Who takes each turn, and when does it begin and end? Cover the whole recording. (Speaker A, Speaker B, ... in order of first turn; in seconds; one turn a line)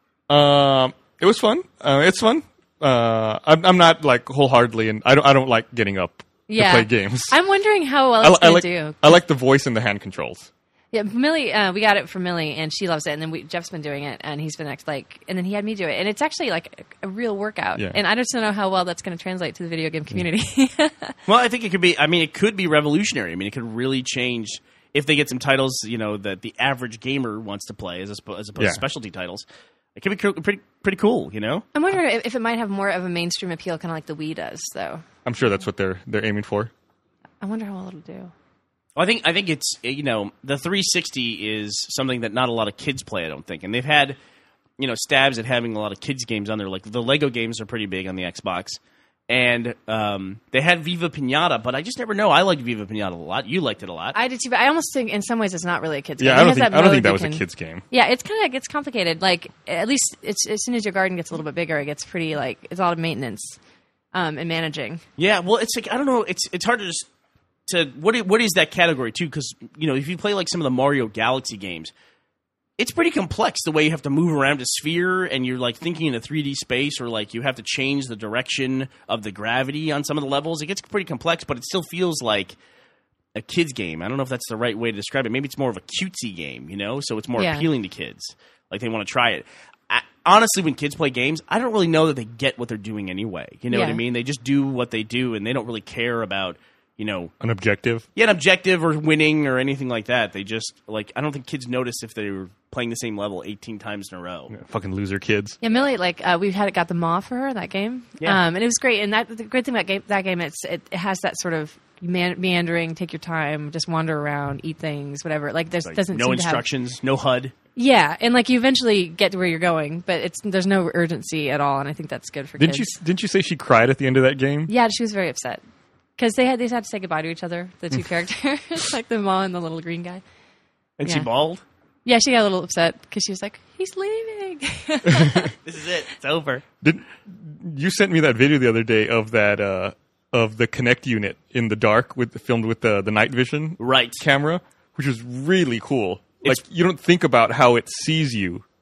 Speaker A: 0.3-7.3
Speaker B: 6.5-9.1
Speaker A: 8.2-10.5
Speaker B: 10.9-21.2
Speaker C: 21.3-29.4
Speaker A: 28.6-28.8
Speaker C: 30.0-31.6
Speaker B: 31.7-35.0
Speaker A: 35.2-36.7
Speaker B: 37.4-38.3
Speaker C: 39.0-44.2
Speaker C: 44.8-54.2
Speaker B: 54.1-63.6
Speaker A: 56.2-57.8
Speaker B: 64.1-65.0
Speaker C: 65.2-67.1
Speaker C: 67.7-71.9
Speaker C: 72.8-82.6
Speaker C: 83.3-97.3
Speaker B: 87.4-87.7
Speaker B: 93.7-94.0
Speaker A: 97.4-98.0
Speaker C: 98.2-104.5
Speaker A: 104.5-105.6
Speaker B: 105.6-116.7
Speaker C: 115.8-117.5
Speaker B: 117.8-123.0
Speaker A: 122.6-124.7
Speaker B: 124.7-125.6
Speaker B: 126.2-130.2
Speaker C: 131.0-131.6
Speaker B: 132.1-135.5
Speaker A: 135.1-135.4
Speaker C: 135.6-136.6
Speaker A: 136.8-148.6
Speaker C: 143.8-144.2